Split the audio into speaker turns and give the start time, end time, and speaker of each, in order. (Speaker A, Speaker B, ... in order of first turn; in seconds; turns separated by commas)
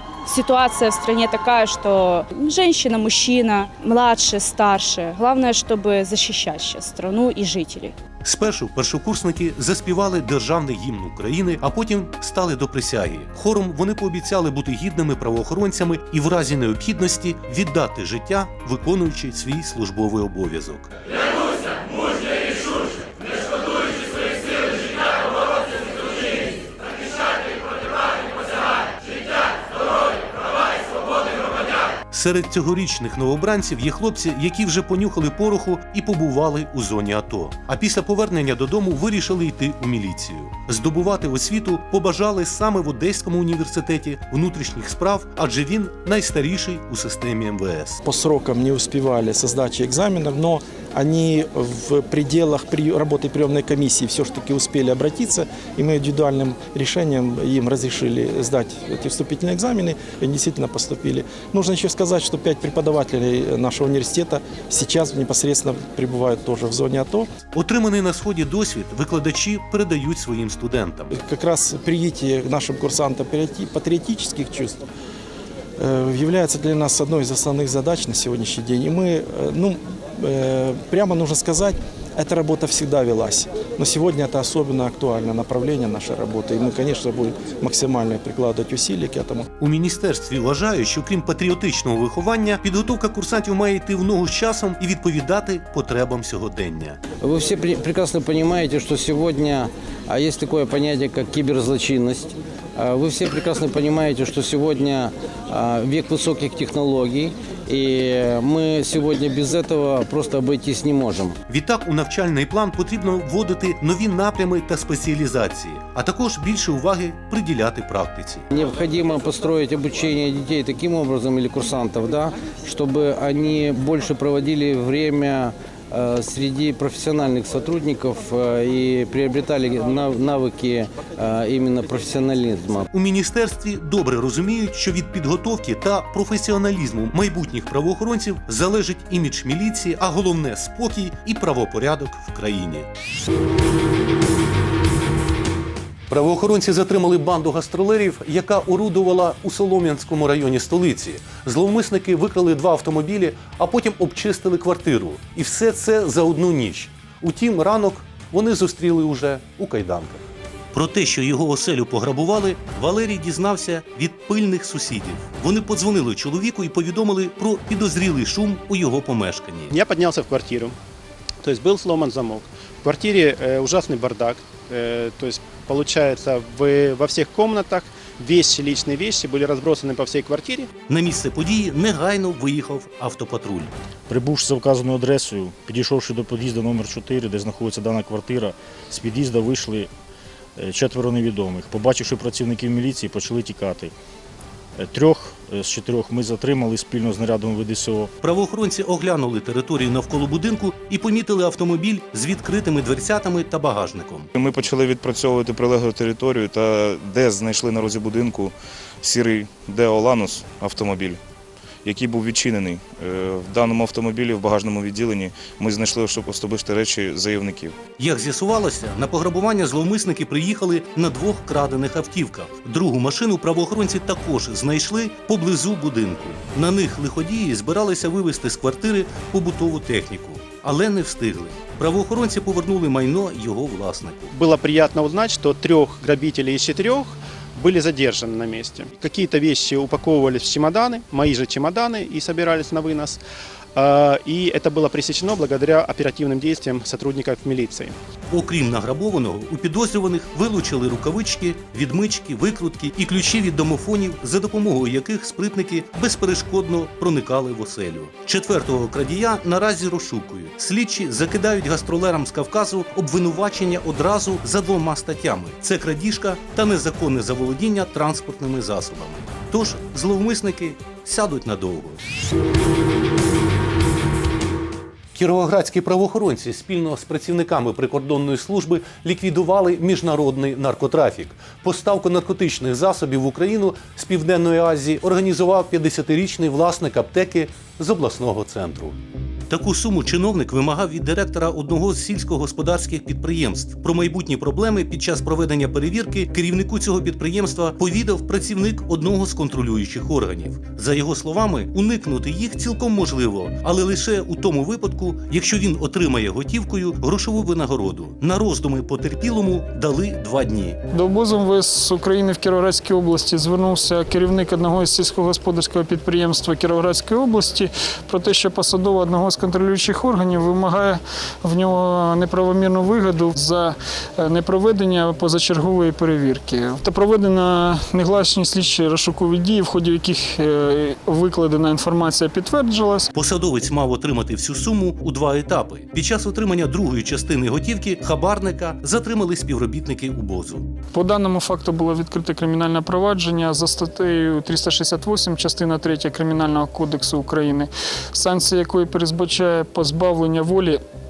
Speaker A: 0.3-8.0, Speaker B: 8.2-20.9, Speaker B: 32.1-48.0, Speaker C: 48.0-67.3, Speaker B: 67.5-71.1, Speaker C: 71.1-74.8, Speaker C: 75.8-89.5, Speaker B: 89.6-97.0, Speaker D: 97.2-111.4, Speaker B: 111.5-118.4, Speaker D: 118.5-132.9, Speaker B: 132.9-142.9, Speaker B: 146.1-169.7, Speaker E: 169.7-170.8, Speaker E: 171.4-180.7, Speaker B: 180.9-183.7, Speaker F: 184.1-189.9, Speaker F: 190.6-193.9, Speaker F: 194.8-198.1, Speaker B: 198.2-204.3, Speaker G: 204.4-211.2, Speaker G: 211.8-217.7, Speaker B: 218.0-234.3, Speaker E: 234.3-243.2, Speaker E: 243.8-248.0, Speaker B: 248.3-272.0, Speaker B: 275.1-289.0, Speaker B: 289.5-310.8, Speaker H: 310.9-333.1, Speaker B: 333.1-340.7, Speaker H: 340.9-350.8